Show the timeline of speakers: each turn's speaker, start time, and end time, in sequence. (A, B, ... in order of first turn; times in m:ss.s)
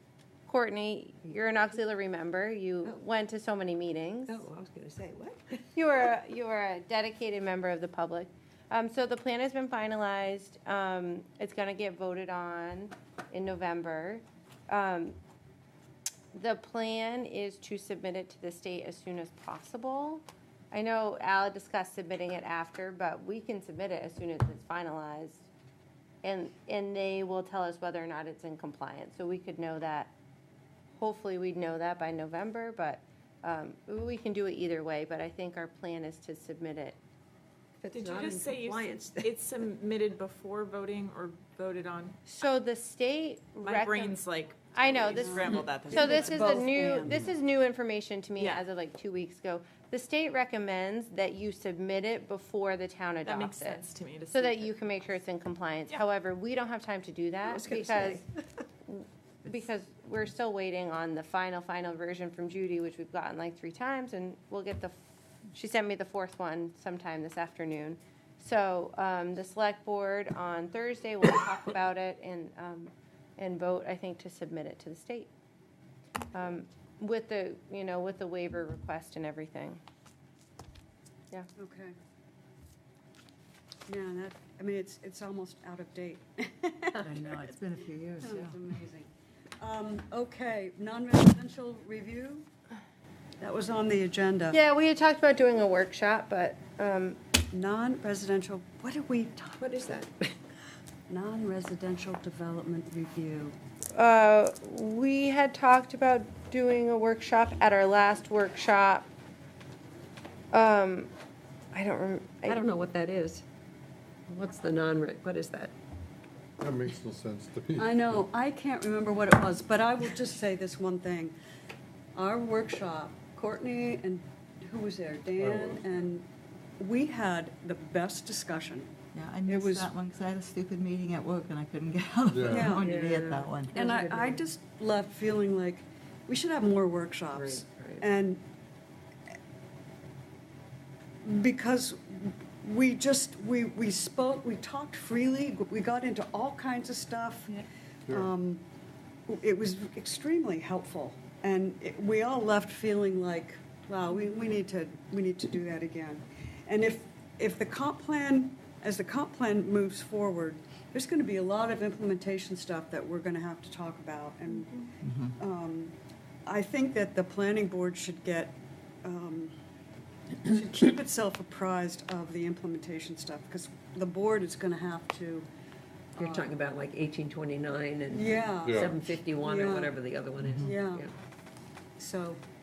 0:00.5-0:04.4 A
0:04.3-0:05.6 B
0:05.8-0:15.2 A
0:16.3-0:25.4 A
0:26.2-0:30.1 A
0:31.0-0:37.0 A
0:37.8-0:39.3 B
0:37.9-0:42.2 C
0:42.3-0:44.2 A
0:43.6-0:46.6 C
0:44.7-0:58.2 A
0:45.2-0:47.2 D
0:48.4-0:48.6 C
0:53.2-0:54.7 C
0:57.5-0:58.2 B
0:58.9-1:05.0 A
1:05.5-1:15.3 A
1:16.3-1:19.8 A
1:21.6-1:22.0 D
1:23.9-1:27.5 D
1:27.0-1:28.7 E
1:28.2-1:32.5 D
1:33.4-1:34.6 D
1:34.5-1:37.2 A
1:37.5-1:39.8 D
1:39.6-1:40.3 B
1:41.1-1:43.6 D
1:44.0-1:49.1 A
1:50.5-1:51.1 A
1:51.7-1:52.6 A
1:52.5-1:53.4 B
1:54.3-1:55.7 B
1:56.6-1:58.2 F
1:57.8-2:01.3 D
2:02.2-2:06.3 D
2:05.4-2:05.8 F
2:06.8-2:08.9 D
2:09.1-2:13.8 E
2:09.5-2:09.9 D
2:12.3-2:12.8 F
2:12.5-2:12.9 D
2:12.8-2:14.4 B
2:13.8-2:18.4 D
2:17.4-2:18.0 B
2:21.2-2:28.6 D
2:29.3-2:49.6 D
2:45.0-2:45.3 E
2:50.4-2:55.5 D
2:56.2-2:56.5 D
2:56.2-2:58.2 B
2:58.1-2:58.8 D
2:58.6-2:59.0 F
2:58.8-3:01.0 B
2:59.4-3:00.0 D
3:00.4-3:00.8 E
3:00.6-3:01.1 D
3:02.0-3:02.4 D